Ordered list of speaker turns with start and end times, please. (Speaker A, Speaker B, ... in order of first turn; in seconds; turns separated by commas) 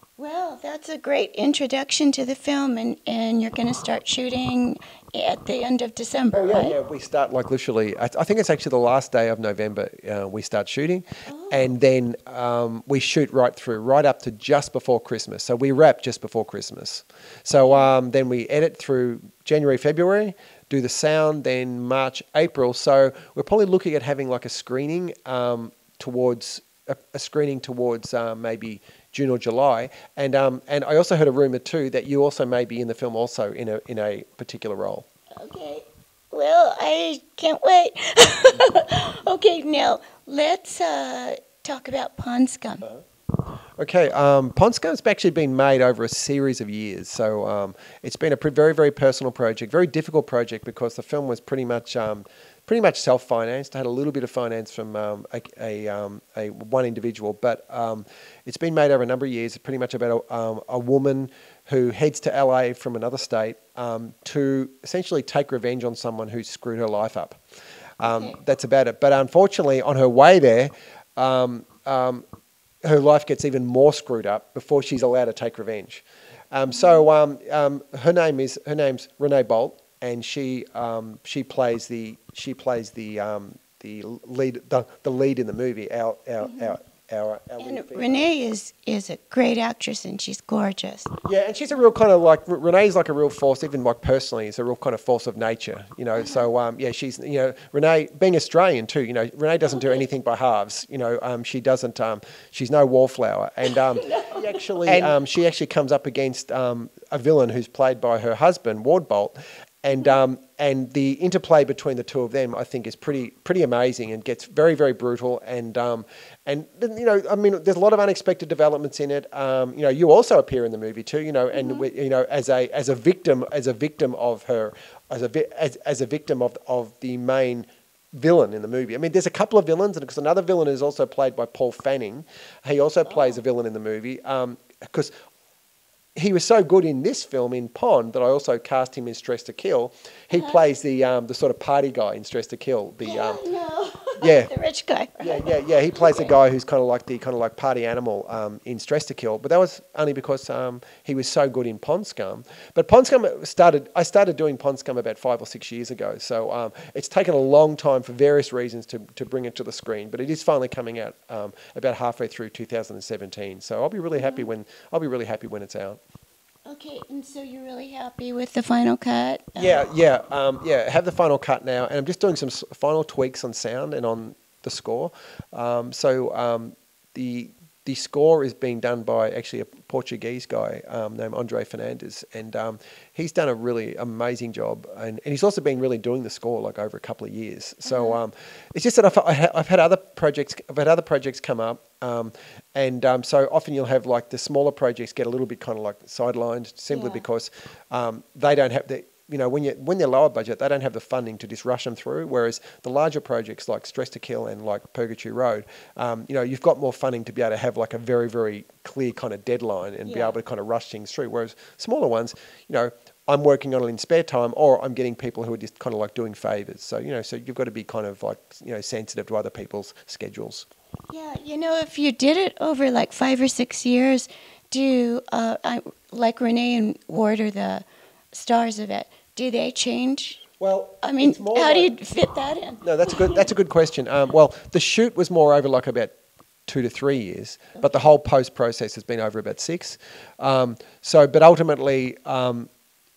Speaker A: 0.2-6.8, Speaker B: 6.3-35.1, Speaker A: 11.3-11.7, Speaker A: 17.6-17.9, Speaker A: 35.4-42.9, Speaker B: 43.8-67.4, Speaker B: 68.0-72.2, Speaker A: 68.0-68.4, Speaker B: 72.8-88.3, Speaker A: 76.7-77.0, Speaker A: 86.4-86.8, Speaker A: 87.6-91.1, Speaker B: 91.2-135.1, Speaker A: 96.2-96.5, Speaker A: 103.7-105.2, Speaker A: 121.5-121.9, Speaker A: 133.1-133.4, Speaker B: 136.2-143.4, Speaker A: 140.3-140.6, Speaker A: 143.0-146.3, Speaker B: 144.2-144.5, Speaker B: 145.2-166.0, Speaker A: 164.2-164.5, Speaker A: 166.7-169.9, Speaker B: 169.6-220.7, Speaker A: 187.8-188.2, Speaker A: 196.9-197.2, Speaker A: 210.1-210.4, Speaker A: 221.1-230.4, Speaker B: 230.6-231.9, Speaker A: 231.0-233.5, Speaker B: 232.8-236.2, Speaker B: 236.7-242.7